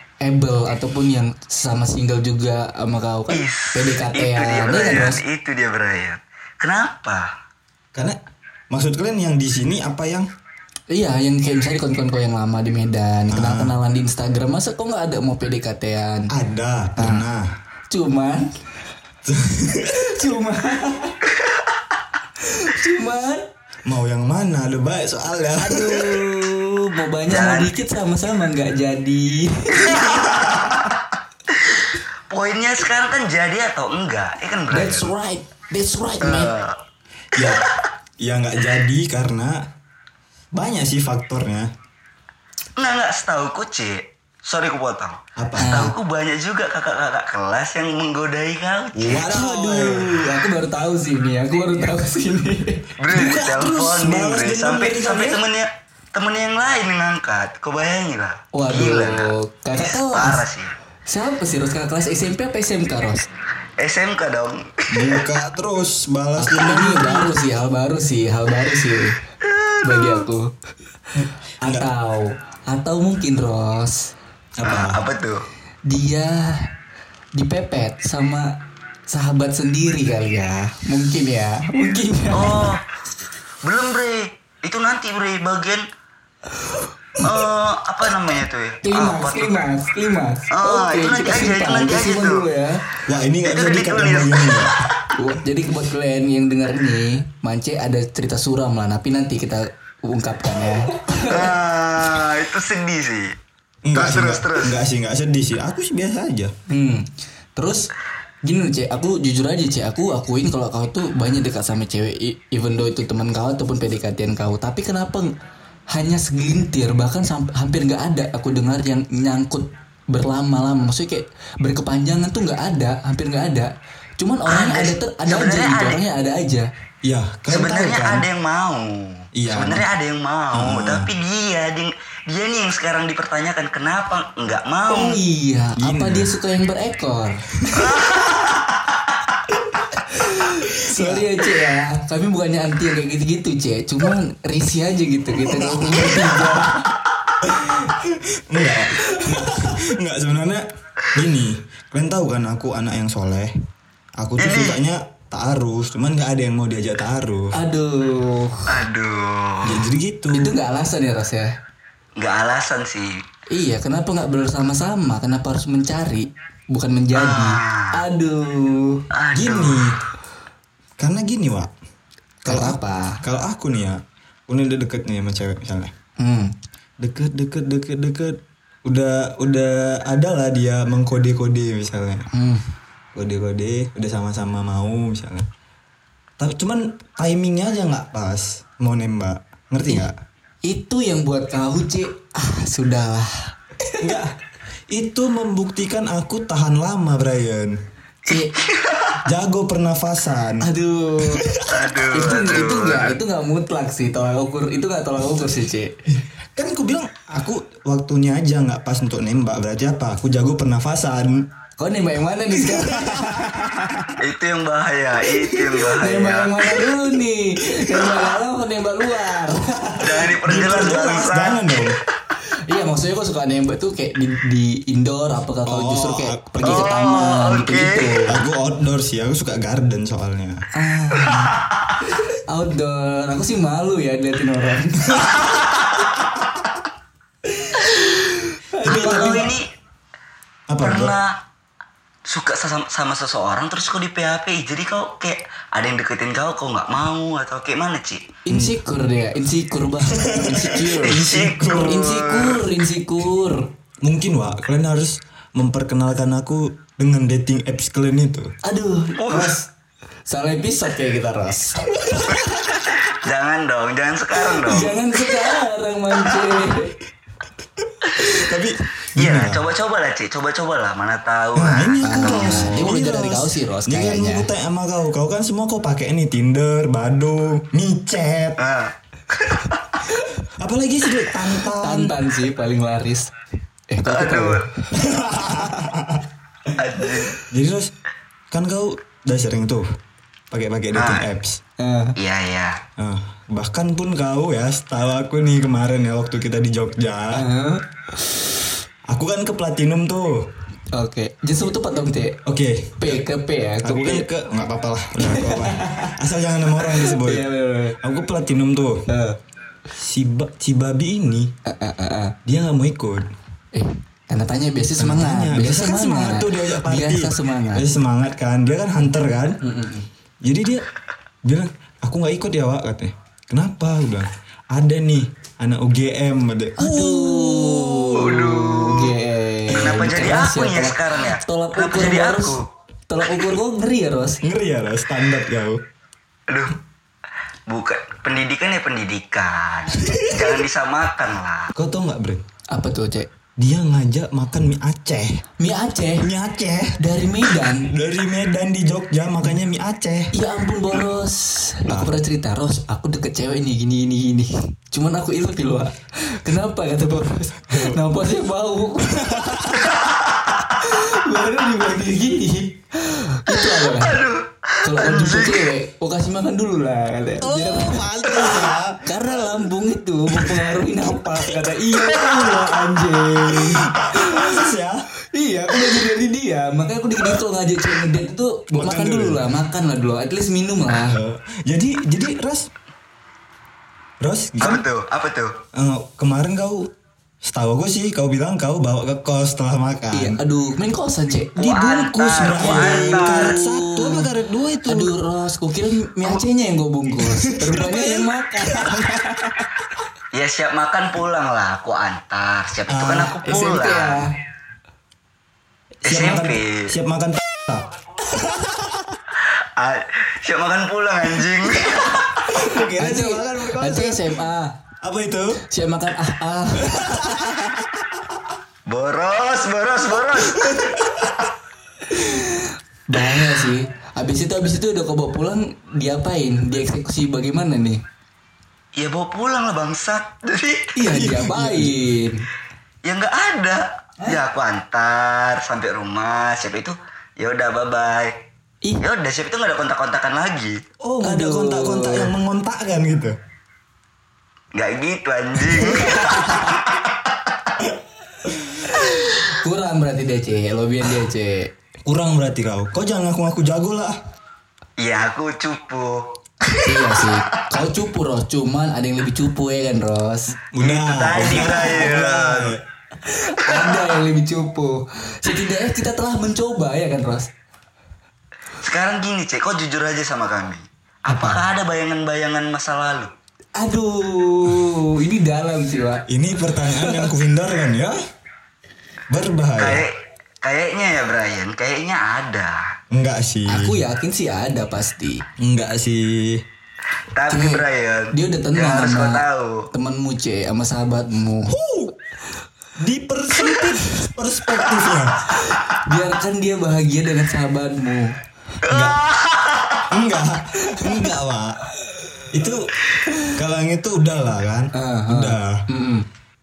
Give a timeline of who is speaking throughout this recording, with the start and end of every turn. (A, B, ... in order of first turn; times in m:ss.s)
0:00.2-0:05.2 A
0:03.3-0:07.3 B
0:08.7-0:10.3 C
0:10.9-0:16.3 A
0:13.3-0:13.8 C
0:16.3-0:17.5 C
0:17.0-0:17.3 A
0:17.9-0:18.6 A
0:19.2-0:20.1 C
0:19.9-0:21.2 A
0:22.4-0:23.4 A
0:23.8-0:26.3 C
0:25.6-0:30.2 A
0:27.3-0:27.7 B
0:29.8-0:30.8 B
0:31.5-0:35.1 B
0:34.7-0:36.5 A
0:36.2-0:36.8 B
0:37.3-0:37.7 C
0:37.4-0:37.7 B
0:38.2-0:39.6 C
0:40.5-0:41.7 C
0:42.8-0:49.3 B
0:45.4-0:45.9 C
0:45.6-0:45.9 A
0:49.0-0:50.3 C
0:49.3-0:52.9 A
0:53.0-1:00.7 B
0:53.1-0:55.4 C
0:58.5-1:00.4 A
1:01.1-1:03.2 A
1:03.8-1:05.2 B
1:04.9-1:07.3 C
1:06.4-1:09.2 A
1:09.6-1:10.2 B
1:09.8-1:10.5 A
1:11.2-1:11.9 C
1:11.6-1:14.1 A
1:14.6-1:15.0 C
1:14.6-1:15.5 B
1:15.9-1:16.7 A
1:17.4-1:18.6 A
1:19.1-1:22.6 A
1:22.3-1:22.8 B
1:23.6-1:25.8 B
1:26.6-1:27.2 A
1:27.2-1:29.7 B
1:28.8-1:32.8 A
1:30.5-1:32.4 B
1:33.1-1:34.7 C
1:33.4-1:34.9 B
1:35.1-1:41.5 A
1:41.3-1:43.4 B
1:43.8-1:46.5 C
1:43.9-1:44.8 B
1:46.7-1:47.9 A
1:48.4-1:55.3 A
1:55.9-2:06.7 A
2:04.5-2:06.0 B
2:07.0-2:08.3 C
2:07.5-2:15.2 B
2:09.3-2:09.9 C
2:10.5-2:11.1 C
2:14.9-2:17.5 A
2:15.8-2:16.3 C
2:17.8-2:18.6 B
2:20.1-2:26.9 A
2:20.8-2:21.3 C
2:25.4-2:26.7 C
2:27.4-2:33.5 C
2:29.0-2:29.4 A
2:34.2-2:37.5 C
2:34.4-2:34.8 B
2:37.5-2:38.7 A
2:38.7-2:39.9 B
2:39.6-2:40.6 C
2:40.3-2:41.5 A
2:42.2-2:43.2 B
2:43.5-2:49.0 A
2:47.2-2:48.0 B
2:49.1-2:49.9 B
2:49.3-2:50.0 C
2:51.0-2:51.7 C
2:52.4-2:55.9 C
2:52.5-2:53.2 A
2:56.2-2:56.5 A
2:57.0-3:02.3 C
3:02.3-3:02.7 A
3:03.2-3:05.5 C
3:06.4-3:10.2 C
3:10.6-3:14.2 A
3:14.0-3:14.3 C
3:14.9-3:17.8 C
3:18.3-3:18.6 A
3:18.3-3:19.2 B
3:19.2-3:20.7 C
3:20.6-3:21.5 A
3:21.3-3:21.6 C
3:21.7-3:23.2 B
3:22.1-3:25.9 A
3:26.1-3:31.4 C
3:31.8-3:34.1 A
3:32.6-3:33.4 C
3:34.2-3:36.7 B
3:35.8-3:40.3 A
3:37.9-3:38.2 C
3:40.0-3:41.7 B
3:40.4-3:42.0 C
3:42.7-3:48.4 A
3:45.7-3:46.8 C
3:46.6-3:48.1 B
3:48.2-3:50.6 C
3:50.7-3:51.5 A
3:52.1-3:55.4 A
3:57.7-3:59.5 A
3:58.8-3:59.5 C
3:58.8-3:59.7 B
4:00.7-4:01.2 C
4:00.8-4:01.4 B
4:02.3-4:08.3 B
4:08.5-4:13.7 A
4:10.1-4:11.8 C
4:11.0-4:12.6 B
4:14.0-4:18.5 C
4:18.6-4:19.7 A
4:19.2-4:19.5 B
4:20.3-4:22.6 A
4:23.0-4:25.0 B
4:24.4-4:27.0 A
4:28.2-4:29.6 C
4:29.2-4:32.9 B
4:31.6-4:38.6 C
4:32.0-4:34.5 A
4:38.6-4:39.8 B
4:40.6-4:42.2 C
4:41.7-4:43.3 A
4:43.9-4:44.6 A
4:44.1-4:44.7 B
4:44.9-4:46.2 C
4:45.4-4:45.9 A
4:46.8-4:47.4 B
4:47.5-4:47.9 C
4:48.5-4:49.9 C
4:50.5-4:51.6 C
4:50.9-4:51.3 B
4:51.8-4:52.2 A
4:52.2-4:52.8 B
4:53.0-4:57.4 C
4:57.3-4:58.3 A
4:59.1-5:00.5 C
5:00.9-5:02.4 A
5:02.5-5:03.2 C
5:03.0-5:04.3 A
5:03.8-5:07.5 C
5:05.2-5:06.1 A
5:06.8-5:08.0 A
5:08.0-5:09.0 C
5:09.1-5:09.4 A
5:09.9-5:11.5 C
5:11.7-5:12.4 A
5:12.4-5:13.3 C
5:13.7-5:17.9 A
5:15.0-5:19.6 C
5:19.6-5:20.1 A
5:20.4-5:20.9 C
5:21.4-5:27.4 C
5:26.8-5:34.4 A
5:27.5-5:29.1 B
5:29.7-5:32.6 B
5:34.4-5:35.8 C
5:36.5-5:36.8 B
5:37.7-5:41.7 B
5:40.0-5:40.5 C
5:41.7-5:42.4 C
5:42.7-5:43.3 A
5:43.6-5:45.4 C
5:45.6-5:46.3 A
5:46.2-5:50.3 C
5:47.0-5:47.9 A
5:50.3-6:00.1 A
5:57.7-5:58.0 C
5:59.3-5:59.9 C
6:00.6-6:04.2 A
6:03.5-6:05.7 B
6:04.8-6:08.0 A
6:07.4-6:09.5 C
6:08.3-6:08.6 B
6:09.0-6:14.6 A
6:13.5-6:15.0 C
6:15.3-6:21.2 A
6:18.7-6:19.4 C
6:20.9-6:22.7 C
6:24.2-6:24.8 C
6:24.6-6:25.6 B
6:25.7-6:26.9 C
6:27.4-6:30.4 C
6:30.1-6:31.7 A
6:31.6-6:34.0 B
6:31.6-6:35.1 C
6:32.6-6:33.6 A
6:34.8-6:39.7 A
6:37.2-6:39.1 C
6:40.3-6:44.3 B
6:42.9-6:43.4 C
6:43.4-6:44.3 A
6:46.0-6:46.9 B
6:46.0-6:47.9 C
6:49.4-6:52.3 B
6:52.4-6:54.4 C
6:53.0-6:54.8 A
6:55.0-6:55.6 C
6:55.7-6:57.3 A
6:56.8-6:57.9 C
6:58.9-7:00.7 B
7:00.6-7:01.5 C
7:02.1-7:08.0 A
7:09.0-7:10.9 B
7:11.0-7:12.5 A
7:11.1-7:11.9 C
7:13.0-7:18.3 B
7:19.0-7:20.8 B
7:21.0-7:23.4 C
7:21.2-7:22.3 A
7:24.7-7:26.9 B
7:25.8-7:26.1 C
7:26.2-7:26.6 A
7:28.8-7:31.7 A
7:32.0-7:34.2 C
7:35.0-7:36.3 B
7:36.8-7:40.5 A
7:40.7-7:42.8 C
7:40.8-7:42.8 B
7:41.6-7:42.2 A
7:43.2-7:47.5 A
7:43.7-7:44.0 B
7:48.8-7:53.3 B
7:51.3-7:51.7 C
7:53.8-7:56.2 A
7:56.3-7:58.2 C
7:56.8-7:57.3 A
7:59.3-8:00.0 C
7:59.8-8:02.8 B
8:03.1-8:04.0 C
8:03.7-8:05.4 A
8:05.6-8:06.6 C
8:07.4-8:09.9 B
8:07.5-8:11.7 A
8:11.7-8:12.1 C
8:13.0-8:15.4 C
8:15.6-8:18.4 A
8:18.8-8:20.0 B
8:18.9-8:19.2 C
8:20.1-8:21.8 C
8:20.8-8:21.3 A
8:22.5-8:25.9 C
8:24.9-8:26.2 A